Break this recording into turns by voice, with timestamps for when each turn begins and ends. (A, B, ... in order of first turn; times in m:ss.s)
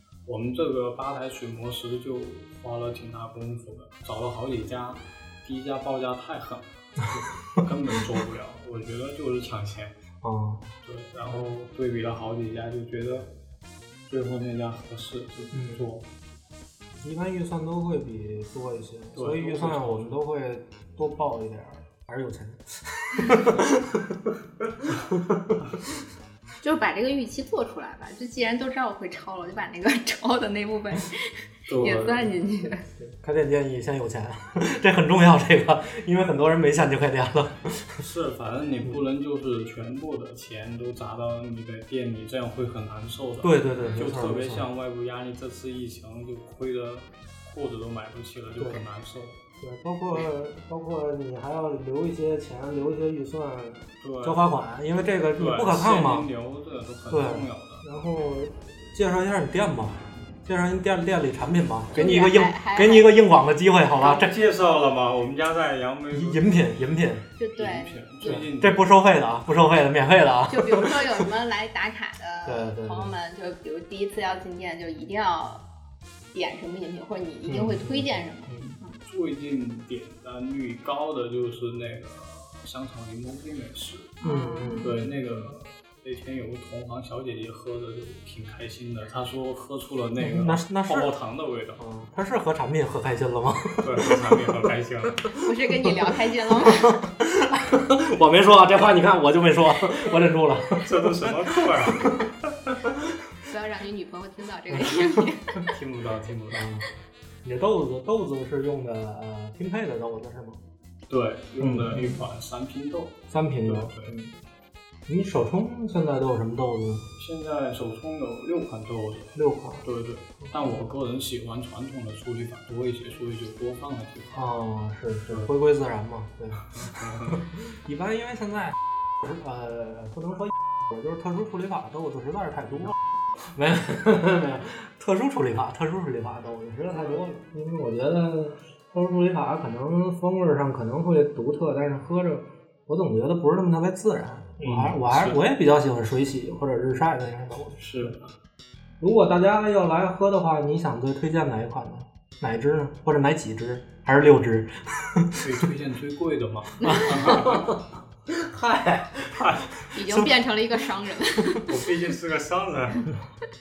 0:00.2-0:10.0 A
0:10.2-0:10.7 B
0:10.8-0:13.3 A
0:14.1-0:16.1 A
0:15.5-0:15.8 B
0:17.0-0:25.6 B
0:19.2-0:20.2 A
0:26.6-0:32.8 C
0:31.7-0:32.3 A
0:33.0-0:38.0 B
0:38.0-0:49.4 A
0:43.4-0:44.7 B
0:48.6-0:48.8 B
0:49.6-0:56.3 B
0:54.0-0:54.4 A
0:55.4-0:57.8 A
0:57.1-1:04.3 B
1:01.9-1:03.3 C
1:04.0-1:06.8 A
1:06.1-1:07.2 B
1:07.4-1:08.5 C
1:07.6-1:08.9 A
1:08.3-1:11.3 B
1:10.5-1:15.7 C
1:12.5-1:13.1 B
1:16.3-1:19.0 C
1:17.5-1:18.8 B
1:19.0-1:24.2 A
1:24.2-1:25.0 C
1:24.2-1:25.5 B
1:24.8-1:31.8 A
1:30.2-1:31.1 B
1:31.8-1:34.7 B
1:33.8-1:35.3 A
1:35.4-1:37.0 C
1:36.7-1:42.2 B
1:40.8-1:42.8 A
1:43.4-1:45.6 C
1:44.7-1:45.6 B
1:45.7-1:46.7 A
1:46.5-1:46.9 B
1:47.4-1:50.6 B
1:51.1-1:54.1 A
1:51.6-1:52.3 B
1:53.3-1:54.4 B
1:55.1-1:57.1 B
1:57.2-2:04.5 A
1:59.4-1:59.9 B
2:04.4-2:13.0 B
2:06.7-2:07.5 A
2:13.5-2:28.1 B
2:24.6-2:25.4 A
2:27.8-2:28.3 A
2:29.0-2:35.5 B
2:35.4-2:37.8 A
2:36.8-2:37.1 C
2:36.8-2:40.3 B
2:39.3-2:39.7 A
2:39.9-2:41.8 C
2:41.7-2:43.1 A